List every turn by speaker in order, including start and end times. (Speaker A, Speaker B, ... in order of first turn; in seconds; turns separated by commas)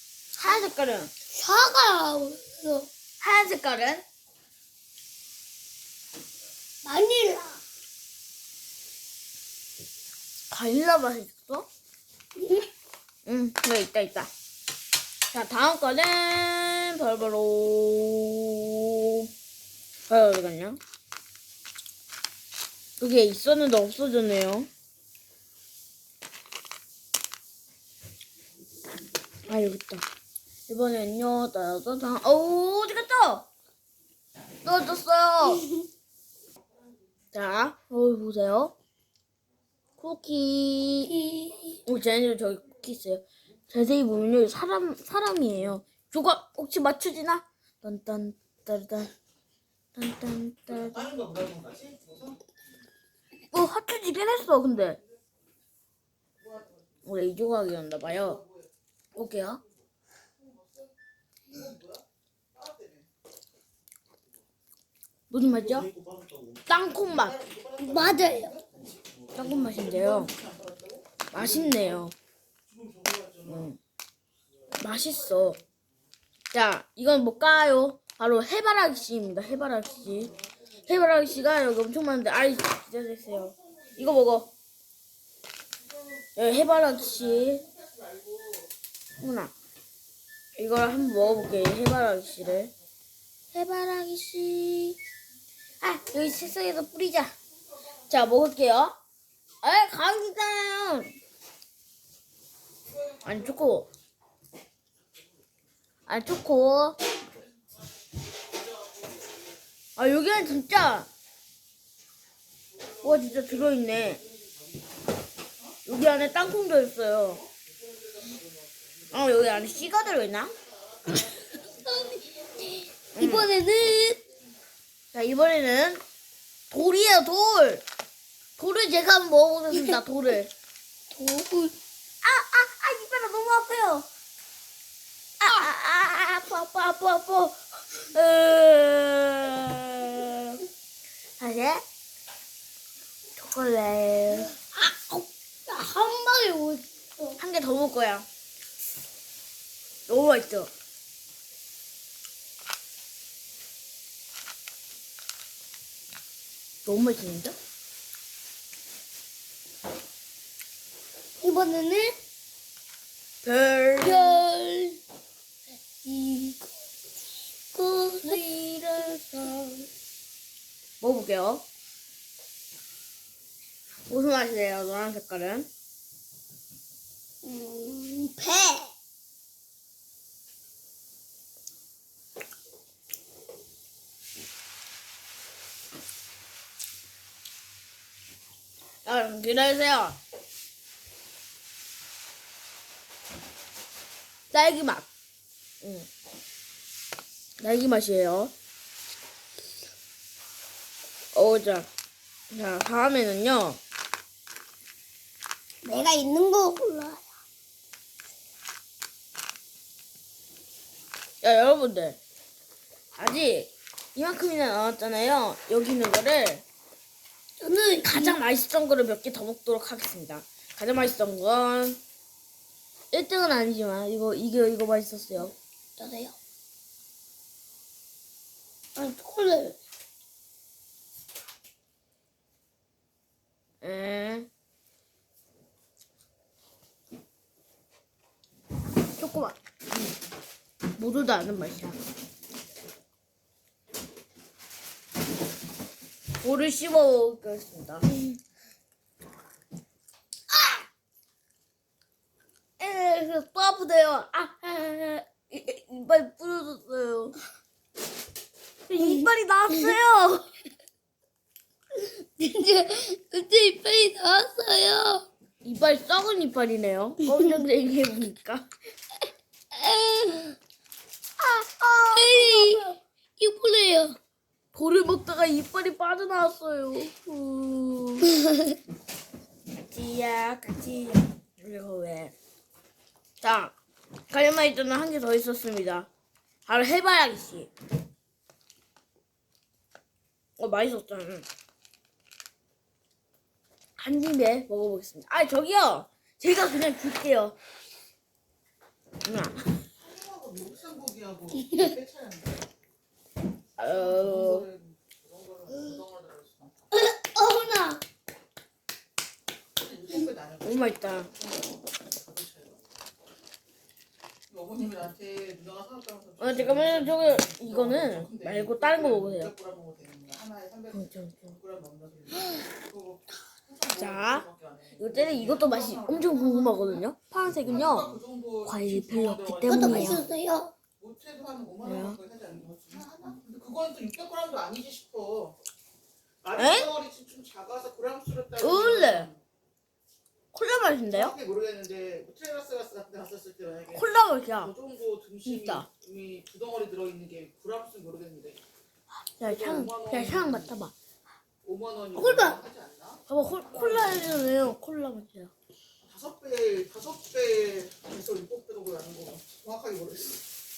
Speaker A: 0.4-1.1, Speaker B: 1.3-2.9, Speaker A: 3.2-4.0, Speaker B: 6.8-7.6, Speaker A: 10.5-11.7, Speaker B: 12.3-12.7, Speaker A: 13.3-14.3, Speaker A: 15.3-19.3, Speaker A: 20.1-20.8, Speaker A: 23.0-24.7, Speaker A: 29.5-30.1, Speaker A: 30.7-33.5, Speaker A: 34.6-35.7, Speaker A: 37.3-38.8, Speaker A: 40.0-41.2, Speaker B: 41.1-41.8, Speaker A: 41.9-49.1, Speaker A: 50.0-51.2, Speaker C: 51.4-52.1, Speaker A: 53.5-55.0, Speaker A: 57.0-58.4, Speaker A: 59.2-59.6, Speaker C: 61.6-62.0, Speaker C: 62.6-63.0, Speaker A: 65.3-65.9, Speaker A: 66.7-67.4, Speaker C: 67.6-68.5, Speaker B: 67.8-68.6, Speaker A: 69.3-70.3, Speaker C: 70.4-71.0, Speaker A: 71.3-72.2, Speaker C: 72.9-73.3, Speaker A: 73.4-73.8, Speaker A: 74.8-75.6, Speaker A: 76.5-80.3, Speaker A: 80.9-84.5, Speaker A: 86.4-87.7, Speaker A: 89.2-89.5, Speaker A: 90.6-92.7, Speaker A: 93.5-95.0, Speaker A: 95.8-97.3, Speaker A: 98.1-99.0, Speaker A: 99.6-101.1, Speaker A: 103.2-103.9, Speaker A: 106.1-107.0, Speaker A: 110.0-111.1, Speaker A: 113.0-114.3, Speaker A: 115.8-117.5, Speaker A: 119.1-120.5, Speaker B: 121.1-124.2, Speaker A: 123.2-123.5, Speaker A: 125.1-126.0, Speaker A: 126.7-127.8, Speaker A: 128.6-130.5, Speaker B: 131.1-131.8, Speaker A: 132.2-134.1, Speaker A: 135.4-140.6, Speaker A: 141.4-141.8, Speaker A: 143.4-144.5, Speaker B: 144.6-147.4, Speaker A: 147.4-148.3, Speaker A: 150.1-150.7, Speaker A: 156.8-157.6, Speaker B: 161.4-162.2, Speaker A: 163.4-164.4, Speaker B: 164.0-165.0, Speaker B: 166.0-166.7, Speaker B: 167.7-168.4, Speaker A: 168.2-169.9, Speaker A: 171.0-171.6, Speaker A: 174.1-175.7, Speaker B: 177.4-178.9, Speaker A: 189.1-190.2, Speaker A: 194.5-195.1, Speaker A: 195.8-196.1, Speaker A: 197.6-198.5, Speaker A: 201.3-201.9, Speaker A: 202.5-203.8, Speaker B: 205.8-207.2, Speaker A: 211.4-212.2, Speaker A: 213.2-216.7, Speaker B: 217.6-218.4, Speaker A: 218.0-222.0, Speaker A: 223.1-225.6, Speaker B: 226.0-226.4, Speaker B: 229.0-229.8, Speaker A: 233.8-234.5, Speaker A: 239.2-240.1, Speaker A: 241.0-242.0, Speaker A: 246.4-248.3, Speaker A: 250.5-250.8, Speaker A: 252.8-257.4, Speaker A: 258.9-260.5, Speaker B: 259.0-259.9, Speaker B: 261.9-265.3, Speaker A: 265.6-268.7, Speaker B: 267.2-267.6, Speaker B: 269.7-270.6, Speaker A: 271.4-272.9, Speaker B: 272.1-274.2, Speaker A: 274.7-278.3, Speaker A: 279.9-282.3, Speaker A: 283.4-283.8, Speaker A: 284.3-286.1, Speaker A: 286.7-287.7, Speaker A: 290.6-291.5, Speaker A: 294.0-297.6, Speaker A: 299.2-299.6, Speaker C: 300.0-302.6, Speaker B: 301.5-301.9, Speaker A: 303.8-304.7, Speaker C: 304.2-306.7, Speaker B: 306.9-308.0, Speaker C: 309.8-312.8, Speaker A: 310.6-311.3, Speaker C: 314.5-316.8, Speaker A: 316.4-319.6, Speaker C: 319.6-320.8, Speaker A: 320.9-321.6, Speaker C: 321.7-323.2, Speaker C: 323.7-324.7, Speaker A: 323.9-330.2, Speaker C: 326.2-326.8, Speaker C: 328.9-330.3, Speaker B: 329.6-330.7, Speaker C: 331.0-335.6, Speaker A: 331.8-332.2, Speaker C: 336.5-339.4, Speaker A: 336.5-337.0, Speaker A: 338.6-339.3, Speaker A: 340.5-341.4, Speaker C: 341.1-343.8, Speaker A: 343.9-344.7, Speaker C: 344.8-348.6, Speaker A: 345.4-345.9, Speaker A: 349.4-350.9, Speaker C: 349.5-350.6, Speaker C: 351.6-353.2, Speaker B: 352.1-352.6, Speaker A: 353.3-355.5, Speaker C: 356.1-360.3